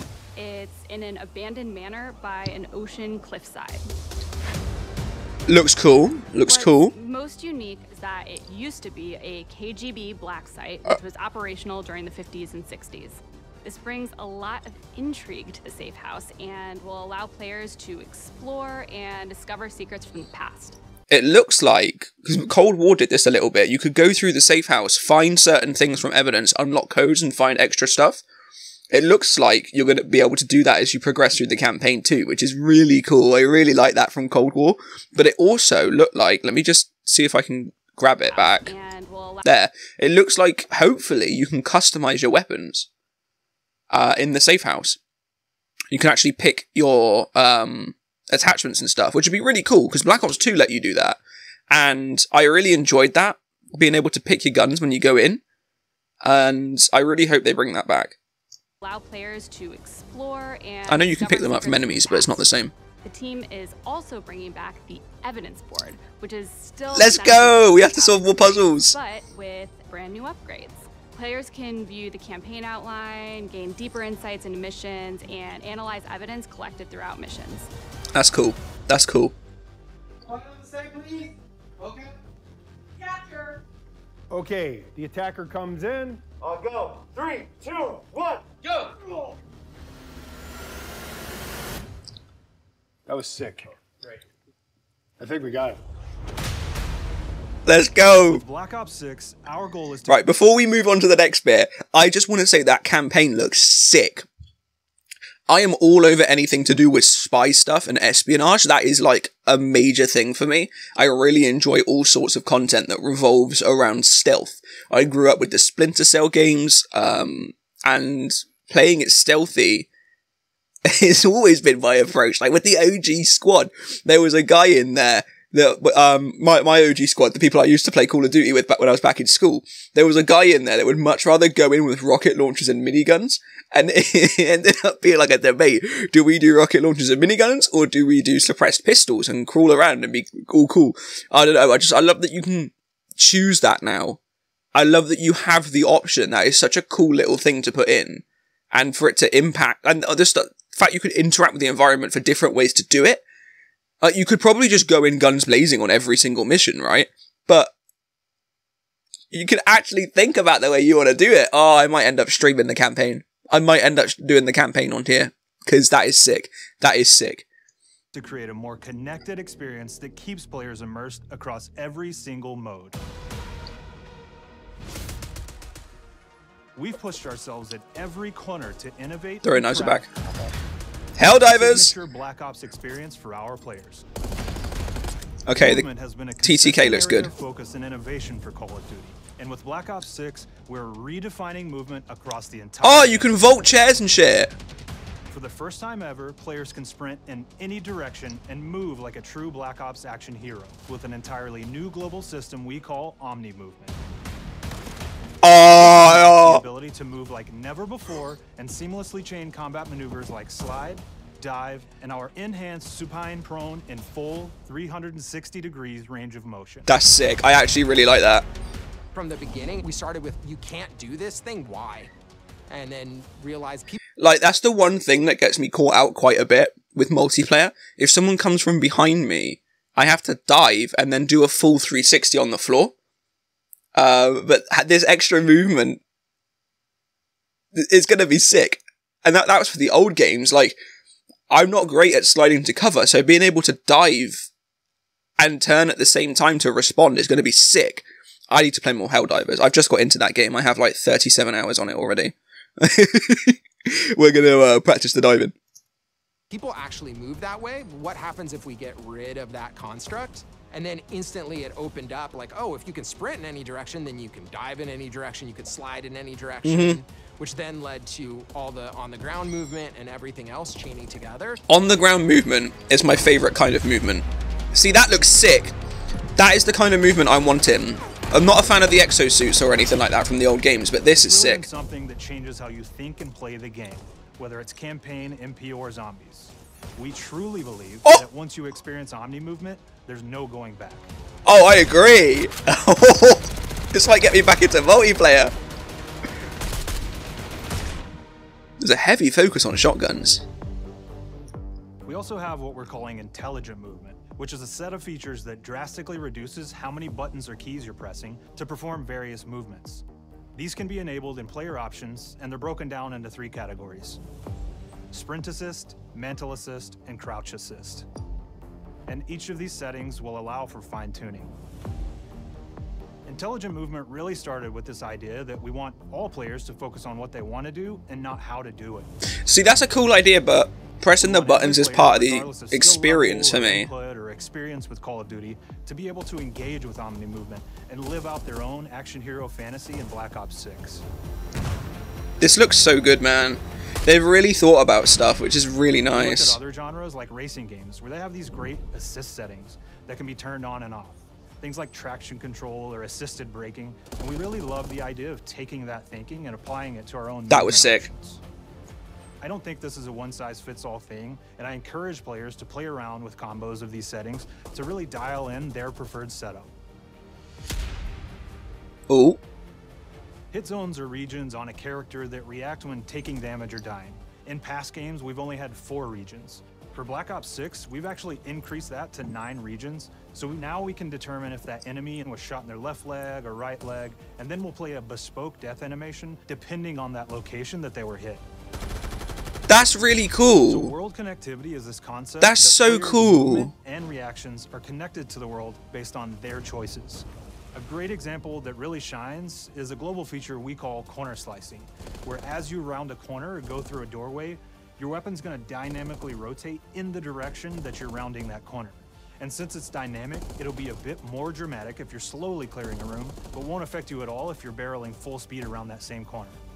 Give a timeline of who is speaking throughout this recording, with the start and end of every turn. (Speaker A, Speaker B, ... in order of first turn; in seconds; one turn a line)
Speaker A: 0.3-3.9
Speaker B: 5.5-6.9
Speaker A: 6.4-20.8
Speaker B: 21.1-28.2
Speaker B: 28.9-38.7
Speaker A: 38.3-39.5
Speaker B: 39.5-42.9
Speaker B: 43.9-45.0
Speaker B: 45.9-51.2
Speaker B: 51.7-55.4
Speaker B: 56.2-58.2
Speaker A: 58.8-62.5
Speaker B: 60.9-62.7
Speaker A: 63.0-77.7
Speaker B: 66.9-69.0
Speaker B: 78.1-79.3
Speaker C: 84.3-86.2
Speaker C: 93.1-93.6
Speaker C: 95.2-95.7
Speaker B: 97.7-98.4
Speaker D: 98.3-100.3
Speaker B: 100.1-104.3
Speaker B: 105.5-119.9
Speaker B: 120.9-144.2
Speaker B: 144.8-153.2
Speaker B: 154.0-157.7
Speaker B: 159.3-167.5
Speaker D: 168.1-173.0
Speaker D: 176.8-180.5
Speaker B: 179.4-180.1
Speaker B: 181.2-181.9
Speaker D: 181.6-184.0
Speaker B: 185.5-185.9
Speaker D: 185.5-193.3
Speaker B: 186.4-187.3
Speaker B: 192.8-194.5
Speaker D: 195.3-204.0
Speaker B: 205.4-206.6
Speaker D: 205.8-216.9
Speaker B: 216.9-218.5
Speaker E: 219.1-222.1
Speaker E: 222.7-224.0
Speaker B: 224.2-232.9
Speaker B: 233.9-236.0
Speaker B: 237.8-240.8
Speaker B: 241.5-244.5
Speaker B: 245.4-255.6
Speaker E: 256.5-271.6
Speaker B: 266.6-267.0
Speaker B: 271.7-275.8
Speaker B: 276.4-281.6
Speaker D: 281.1-291.1
Speaker B: 291.5-295.5
Speaker B: 298.8-300.4
Speaker D: 302.0-310.0
Speaker D: 310.6-314.2
Speaker D: 315.1-318.1
Speaker D: 319.1-321.5
Speaker D: 323.3-329.1
Speaker B: 329.4-333.9
Speaker D: 331.2-341.1
Speaker B: 342.4-346.6
Speaker D: 346.1-358.4
Speaker B: 357.5-358.1
Speaker D: 359.4-366.7
Speaker B: 369.1-369.4
Speaker D: 370.5-388.4
Speaker B: 389.7-390.9
Speaker D: 390.6-416.6
Speaker B: 392.4-393.7